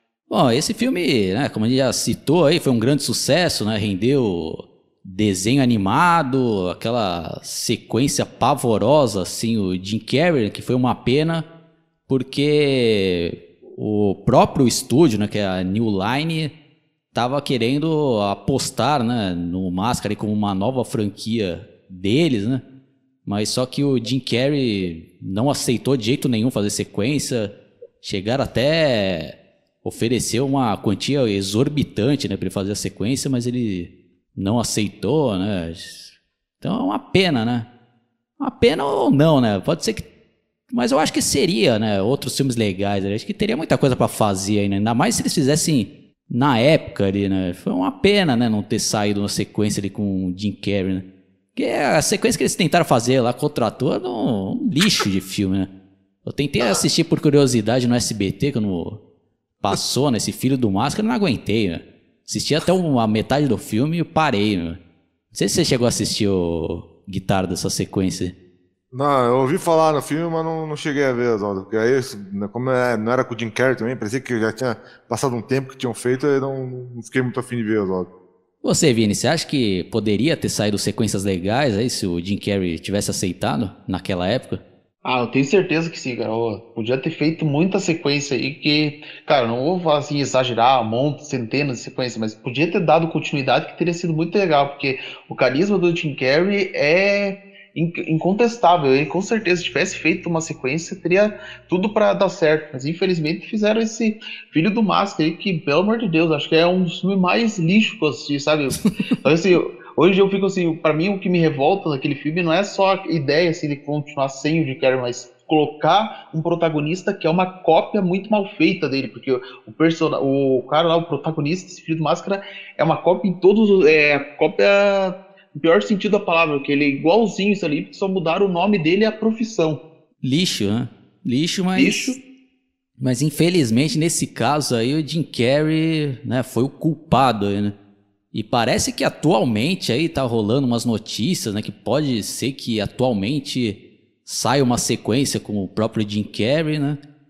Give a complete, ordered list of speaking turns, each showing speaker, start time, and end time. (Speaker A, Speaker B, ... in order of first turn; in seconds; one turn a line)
Speaker A: 0.3-11.5
Speaker A: 12.1-16.5
Speaker A: 17.1-22.6
Speaker A: 23.2-37.7
Speaker A: 38.4-40.1
Speaker A: 40.7-55.7
Speaker A: 56.2-59.0
Speaker A: 59.6-64.8
Speaker A: 65.3-68.3
Speaker B: 68.9-78.1
Speaker A: 78.6-84.6
Speaker C: 85.0-129.8
Speaker A: 130.2-132.2
Speaker C: 131.8-132.2
Speaker A: 133.0-137.8
Speaker A: 138.3-147.0